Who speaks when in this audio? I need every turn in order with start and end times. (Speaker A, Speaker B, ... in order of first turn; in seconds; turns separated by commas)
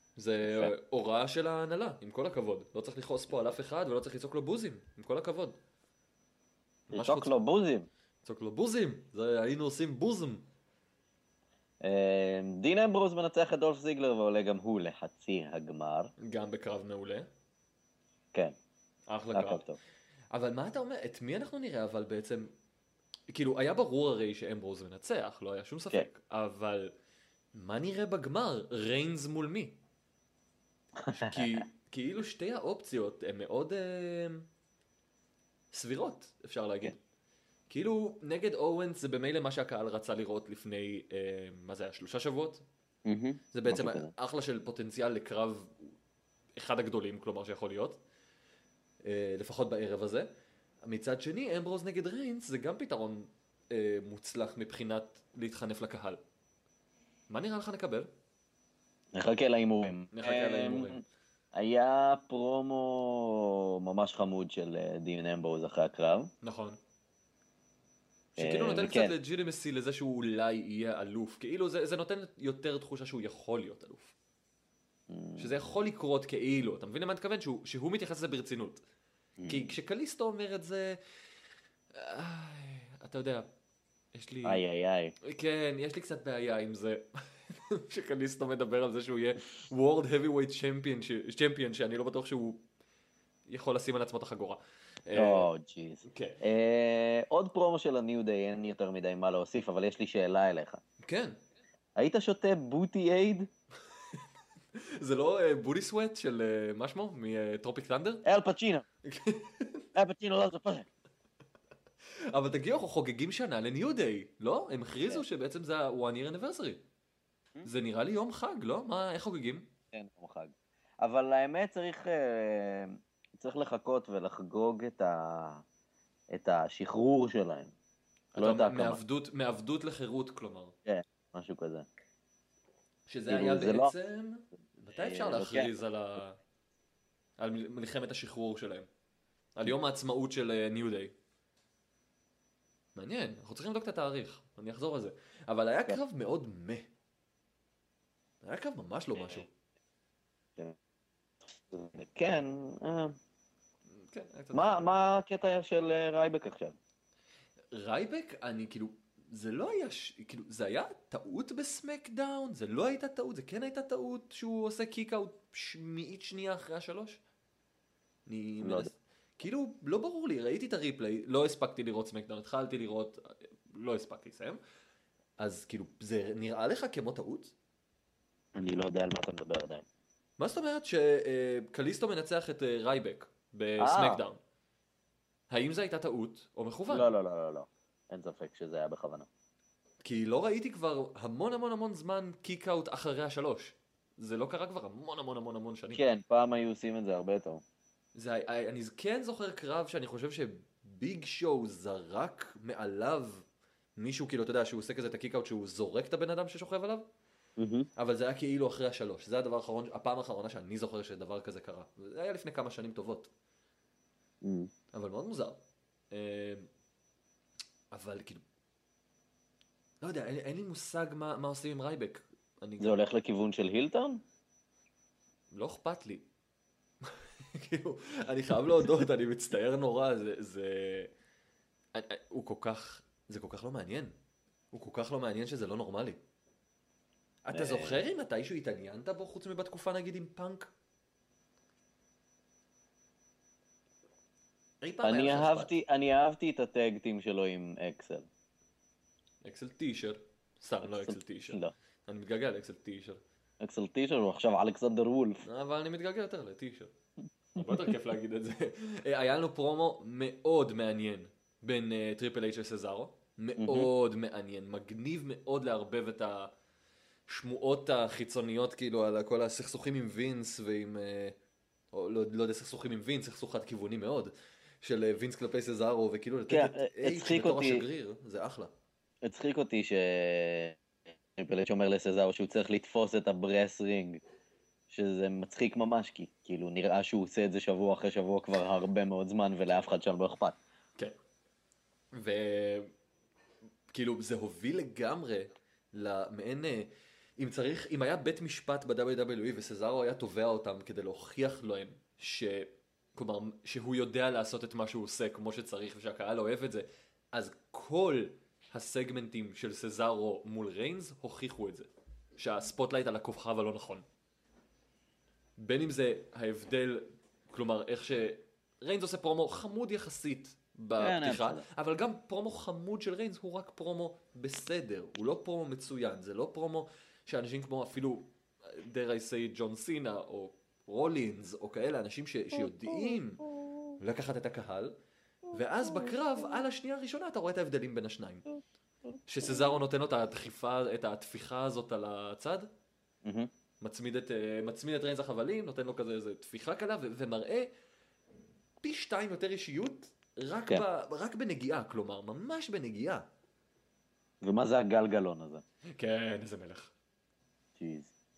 Speaker A: 0.2-5.6, Speaker B: 0.4-0.7, Speaker A: 6.9-7.4, Speaker B: 6.9-7.9, Speaker A: 8.2-10.5, Speaker B: 11.8-16.1, Speaker A: 16.2-17.3, Speaker A: 19.1-19.6, Speaker B: 19.3-19.8, Speaker A: 20.3-22.5, Speaker A: 23.3-26.9, Speaker A: 27.5-29.8, Speaker B: 31.0-31.5, Speaker A: 31.1-34.5, Speaker A: 35.7-37.0, Speaker A: 37.7-42.6, Speaker B: 43.0-44.1, Speaker A: 43.5-45.9, Speaker A: 46.6-48.0, Speaker A: 49.0-50.3, Speaker A: 50.9-56.2, Speaker A: 57.3-58.1, Speaker B: 59.1-61.0, Speaker A: 60.1-61.0, Speaker B: 61.5-66.3, Speaker A: 66.4-66.8, Speaker B: 68.4-69.1, Speaker A: 68.4-74.1, Speaker B: 75.1-75.5, Speaker A: 75.4-78.8, Speaker B: 79.4-79.7, Speaker A: 79.5-81.0, Speaker A: 81.9-83.5, Speaker A: 84.1-84.6, Speaker B: 84.5-85.2, Speaker A: 85.2-92.6, Speaker A: 93.5-95.5, Speaker B: 95.1-100.8, Speaker A: 96.0-96.4, Speaker A: 101.0-101.4, Speaker B: 102.0-103.5, Speaker A: 104.8-108.2, Speaker B: 108.2-108.9, Speaker A: 109.0-109.9, Speaker B: 110.0-110.9, Speaker A: 112.3-116.8, Speaker A: 117.6-119.7, Speaker B: 119.9-125.6, Speaker B: 126.3-127.7, Speaker A: 128.3-130.8, Speaker B: 128.4-129.0, Speaker B: 130.9-131.9, Speaker A: 133.1-136.4, Speaker B: 133.3-133.9, Speaker B: 134.9-135.7, Speaker A: 137.4-138.9, Speaker A: 139.6-141.1, Speaker A: 143.0-146.9, Speaker A: 148.4-149.5, Speaker B: 151.7-153.2, Speaker A: 154.0-154.9, Speaker B: 154.5-156.8, Speaker A: 157.7-167.2, Speaker A: 168.2-174.6, Speaker B: 168.6-168.9, Speaker A: 175.4-177.5, Speaker B: 178.5-179.8, Speaker A: 180.4-184.4, Speaker B: 183.8-184.2, Speaker A: 185.5-187.1, Speaker B: 186.9-189.3, Speaker A: 190.0-196.0, Speaker B: 195.9-197.6, Speaker A: 198.2-203.4, Speaker A: 204.0-207.1, Speaker B: 207.6-207.9, Speaker A: 208.0-213.3, Speaker B: 214.4-214.7, Speaker A: 214.9-216.7, Speaker A: 217.9-218.4, Speaker A: 220.0-223.0, Speaker B: 222.8-224.2, Speaker A: 225.5-226.3, Speaker A: 227.0-231.1, Speaker A: 231.9-234.1, Speaker A: 234.7-236.2, Speaker A: 237.4-240.7, Speaker B: 237.5-238.0, Speaker A: 244.8-245.8, Speaker B: 245.0-248.3, Speaker A: 249.4-253.2, Speaker B: 250.8-251.7, Speaker B: 253.6-255.4, Speaker A: 255.4-256.9, Speaker A: 257.5-266.5, Speaker B: 263.6-263.9, Speaker A: 267.3-271.4, Speaker A: 271.9-278.7, Speaker B: 276.5-277.9, Speaker B: 279.2-280.8, Speaker B: 281.4-284.2, Speaker B: 284.9-290.6, Speaker A: 292.1-292.9, Speaker A: 293.9-314.1, Speaker A: 315.6-333.4, Speaker B: 321.0-321.6, Speaker B: 332.6-333.9, Speaker A: 334.0-335.0, Speaker A: 335.5-338.5, Speaker B: 335.8-336.2, Speaker A: 339.3-342.7, Speaker B: 343.2-343.5, Speaker A: 343.8-347.7, Speaker A: 348.8-353.2, Speaker B: 354.4-355.6, Speaker A: 355.9-356.9, Speaker B: 357.8-358.1